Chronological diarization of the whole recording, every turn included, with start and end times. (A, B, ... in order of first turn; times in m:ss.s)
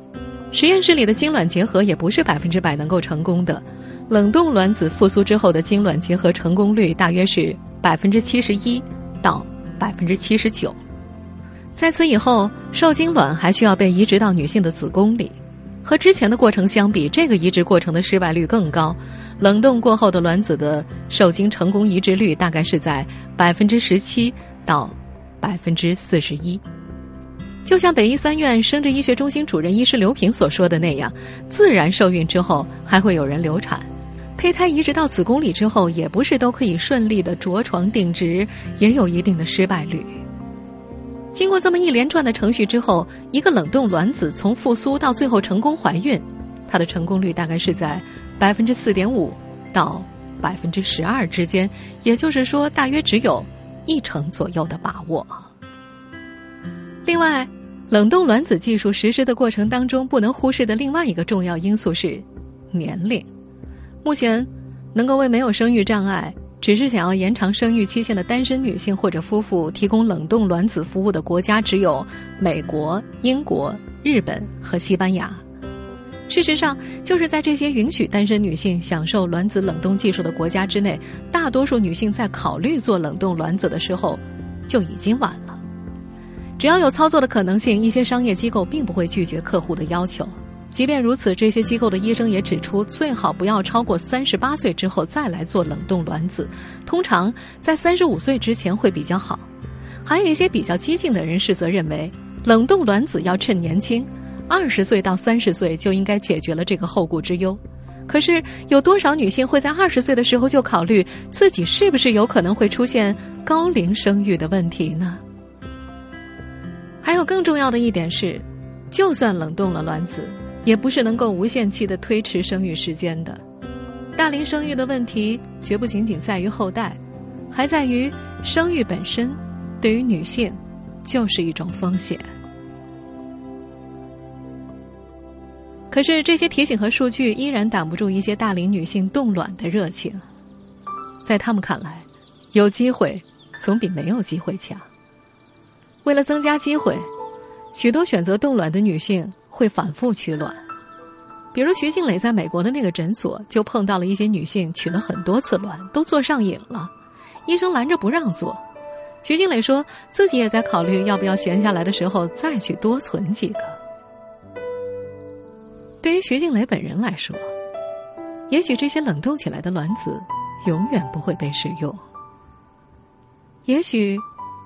0:00.5-0:10.8 A
0:11.8-0:26.6 A
0:27.6-0:40.2 A
0:41.3-0:55.5 A
0:57.0-1:03.3 A
1:04.0-1:15.4 A
1:16.3-1:25.6 A
1:26.6-1:39.5 A
1:40.0-1:55.2 A
1:57.0-2:03.4 A
2:04.2-2:07.0 A
2:07.5-2:12.2 A
2:15.9-2:20.2 A
2:21.2-2:24.9 A
2:26.0-2:27.1 A
2:27.7-2:30.6 A
2:31.5-2:36.9 A
2:37.5-2:38.6 A
2:39.2-2:43.8 A
2:46.0-2:47.5 A
2:48.5-2:52.0 A
2:53.7-2:54.2 A